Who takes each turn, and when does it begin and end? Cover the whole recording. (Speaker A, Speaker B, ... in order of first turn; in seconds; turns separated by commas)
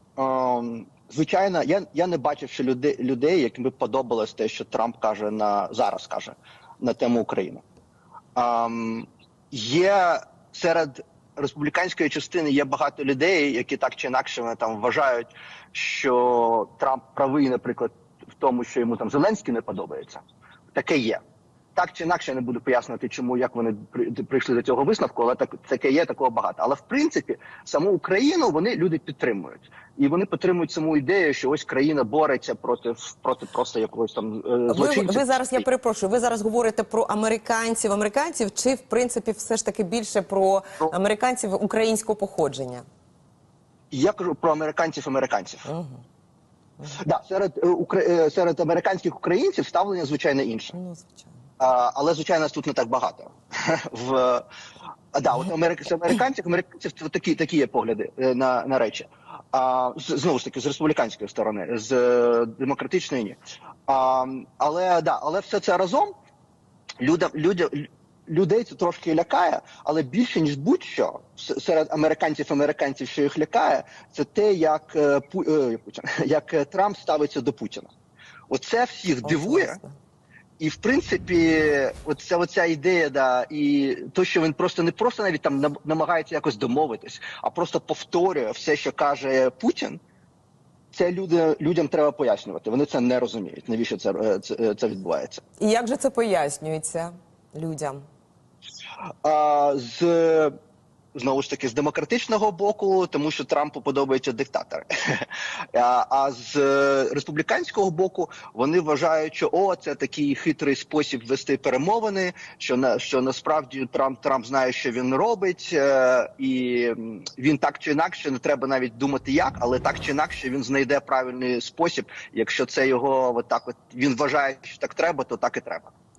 Speaker A: 0.2-7.6, Speaker A: 8.3-21.2, Speaker A: 21.7-35.6, Speaker B: 34.7-42.8, Speaker A: 43.9-45.7, Speaker B: 45.6-46.0, Speaker A: 46.9-50.8, Speaker B: 50.7-51.3, Speaker A: 51.6-54.4, Speaker A: 55.1-66.1, Speaker A: 67.0-77.9, Speaker A: 78.5-79.8, Speaker B: 79.2-80.0, Speaker A: 80.6-90.0, Speaker A: 90.9-95.4, Speaker B: 95.6-98.0, Speaker A: 99.2-100.5, Speaker A: 101.1-125.9